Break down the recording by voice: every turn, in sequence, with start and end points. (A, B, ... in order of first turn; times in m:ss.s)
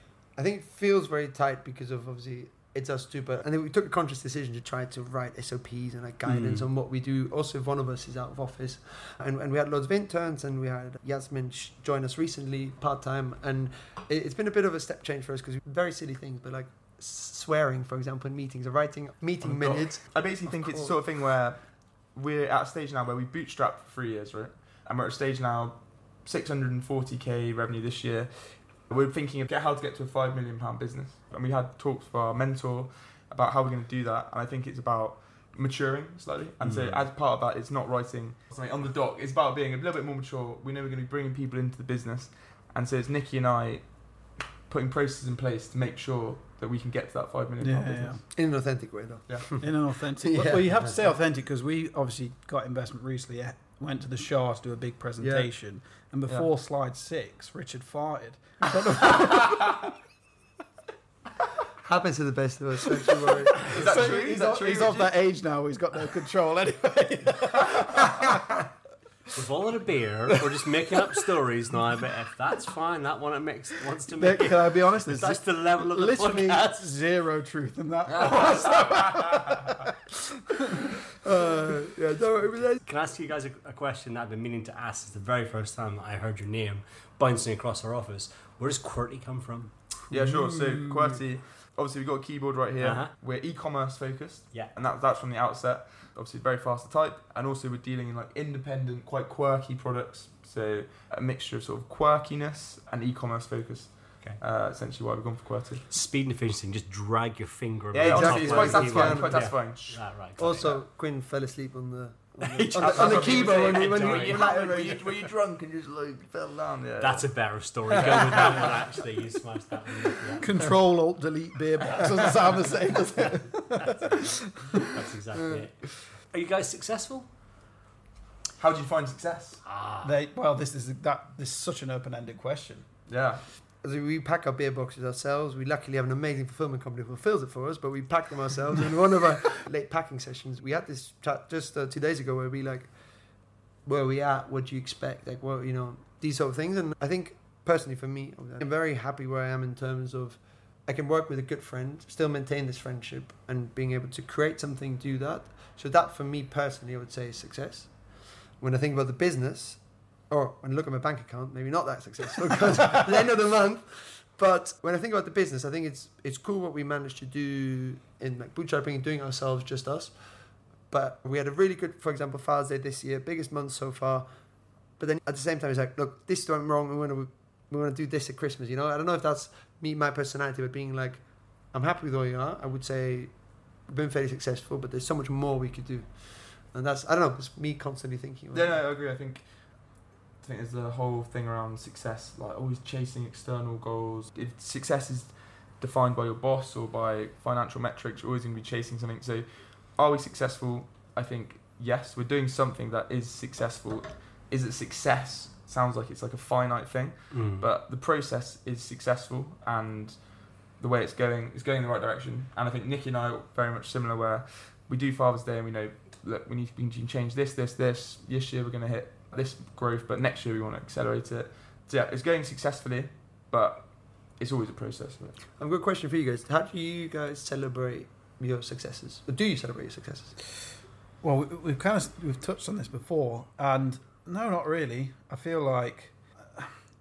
0:00.4-0:20.9 A
0:06.2-0:06.6 B
0:19.4-0:48.3 C
0:36.6-0:37.1 D
0:47.6-0:48.2 B
0:48.3-0:51.1 A
0:49.6-0:59.9 B
0:55.2-0:55.5 A
1:01.8-1:04.0 A
1:03.5-1:08.6 B
1:03.7-1:05.2 C
1:09.3-1:16.8 D
1:14.2-1:20.6 B
1:18.2-1:18.4 C
1:21.2-1:22.8 A
1:22.8-1:29.7 D
1:30.1-1:45.8 C
1:32.8-1:33.1 D
1:45.9-1:50.8 D
1:47.9-1:50.0 C
1:48.0-1:49.6 A
1:50.4-1:55.2 A
1:52.4-1:54.5 D
1:52.8-1:57.3 C
1:57.0-2:00.5 D
1:57.9-1:58.8 C
2:00.4-2:04.9 B
2:03.8-2:07.3 D
2:08.6-2:09.6 C
2:09.6-2:10.1 D
2:10.0-2:12.9 B
2:13.1-2:13.4 C
2:13.8-2:22.9 A
2:23.8-2:37.9 A
2:38.6-2:50.1 A
2:50.9-2:54.3 A
2:55.0-3:03.3 A
3:03.8-3:08.8 A
3:08.5-3:09.8 C
3:10.4-3:45.4 C
3:27.3-3:27.7 D
3:45.6-3:50.3 A
3:51.2-3:56.7 B